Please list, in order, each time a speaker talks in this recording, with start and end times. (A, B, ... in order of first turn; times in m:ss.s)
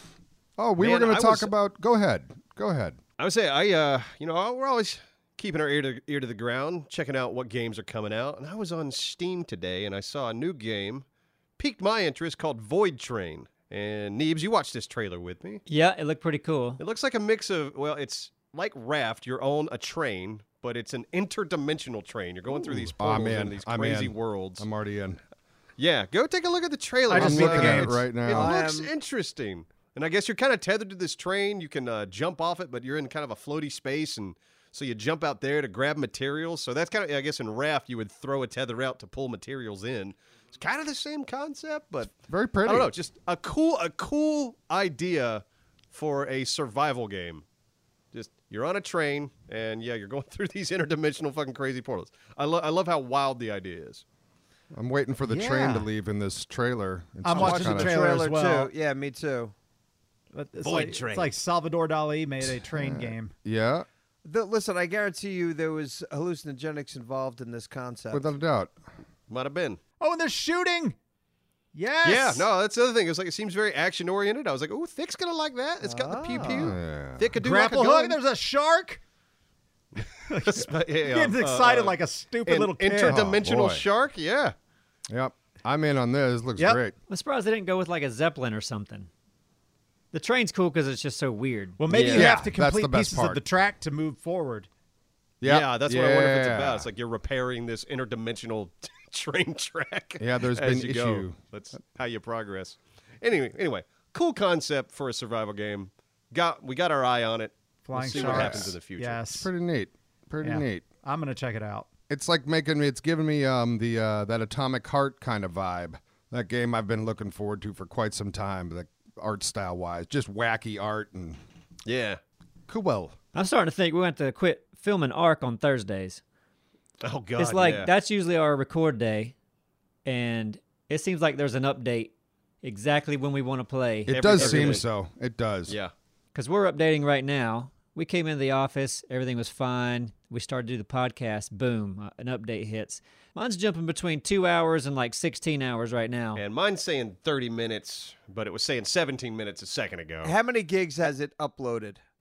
0:00.6-0:03.0 A
0:00.8-0:01.5 B
0:03.2-0:11.0 B
0:11.6-0:15.6 B
0:15.7-0:16.8 C
0:16.8-0:24.6 B
0:22.5-0:25.2 A
0:25.8-0:47.4 B
0:27.1-0:28.0 D
0:27.1-0:28.6 A
0:28.3-0:28.9 E
0:42.2-0:42.9 A
0:48.1-0:54.0 B
0:54.7-0:58.1 A
0:55.2-0:55.9 D
0:57.2-0:58.7 D
0:57.3-0:59.5 E
1:00.3-1:03.3 D
1:00.6-1:01.3 B
1:02.7-1:03.8 A
1:04.2-1:08.3 E
1:08.1-1:08.7 A
1:09.3-1:09.8 B
1:10.0-1:11.0 D
1:11.7-1:12.5 D
1:12.0-1:18.2 B
1:15.8-1:16.7 E
1:16.4-1:17.3 A
1:17.4-1:19.0 D
1:20.3-1:23.2 D
1:20.3-1:24.5 B
1:23.0-1:23.8 A
1:25.1-1:26.9 A
1:27.1-1:29.1 C
1:30.1-1:31.8 C
1:31.8-1:34.7 D
1:31.9-1:32.3 B
1:32.1-1:33.4 A
1:35.4-1:36.9 A
1:35.4-1:49.2 B
1:40.2-1:41.4 A
1:47.8-1:49.5 D
1:48.0-1:48.7 A
1:49.3-1:50.8 A
1:50.4-1:51.9 D
1:52.1-2:01.4 A
2:01.8-2:02.2 B
2:02.7-2:03.1 A
2:03.3-2:06.2 C
2:07.0-2:07.9 B
2:07.4-2:09.3 C
2:10.0-2:12.1 C
2:12.6-2:14.8 C
2:14.1-2:15.8 A
2:14.1-2:14.8 B
2:15.7-2:15.9 B
2:16.3-2:26.4 C
2:26.3-2:30.3 B
2:30.2-2:32.0 E